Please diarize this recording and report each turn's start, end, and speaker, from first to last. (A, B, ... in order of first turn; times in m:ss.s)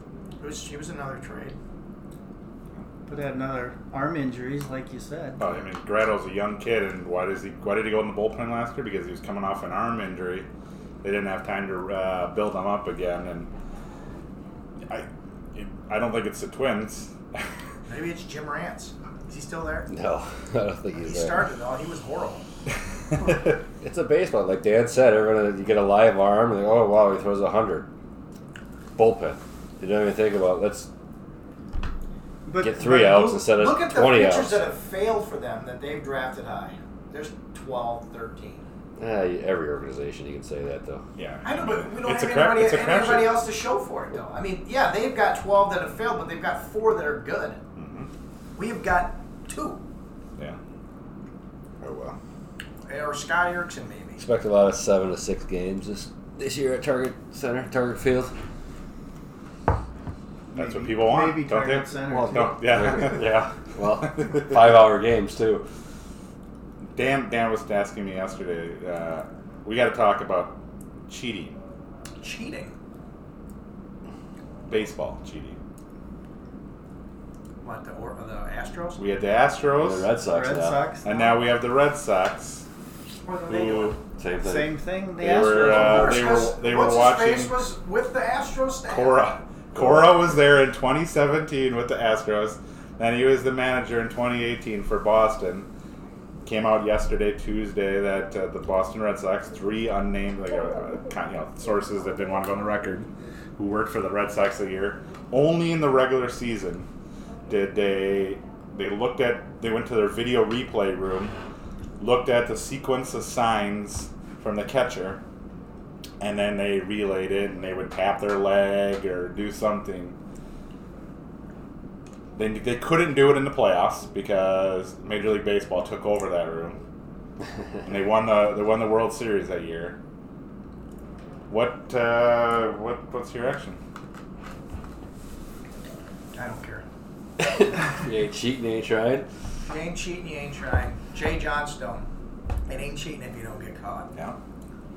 0:00.4-0:01.6 A
0:03.1-0:05.4 B
0:05.4-0:10.5 C
0:11.0-0:13.5 C
0:14.9-0:17.4 C
0:17.9-0:19.9 A
0:19.9-0:21.4 D
0:21.0-0:22.4 A
0:23.8-0:27.9 D
0:29.0-0:30.9 D
0:32.4-0:33.5 B
0:32.6-0:34.6 D
0:33.5-0:38.6 A
0:39.0-0:41.0 D
0:41.2-0:43.4 C
0:41.4-0:47.6 A
0:47.8-0:48.1 C
0:48.6-0:49.8 A
0:51.8-0:52.2 C
0:52.9-0:54.2 A
0:54.2-0:58.3 D
1:00.5-1:02.7 B
1:00.6-1:03.4 C
1:02.1-1:05.6 D
1:06.9-1:11.6 C
1:12.2-1:12.7 A
1:14.7-1:15.6 C
1:17.6-1:19.0 A
1:19.0-1:20.1 C
1:19.8-1:20.8 D
1:20.2-1:21.4 B
1:21.0-1:22.6 C
1:23.2-1:24.0 A
1:23.5-1:24.0 C
1:24.2-1:25.8 D
1:24.4-1:26.5 B
1:25.2-1:27.5 C
1:25.6-1:29.4 A
1:28.9-1:35.7 C
1:29.8-1:30.2 D
1:36.4-1:46.9 C
1:47.5-1:51.3 C
1:52.0-1:55.2 C
1:56.2-2:00.2 C
2:02.3-2:06.8 C
2:07.8-2:10.0 C
2:11.5-2:13.8 C
2:16.3-2:16.8 A
2:17.4-2:19.3 D
2:19.6-2:22.1 A
2:22.7-2:24.1 A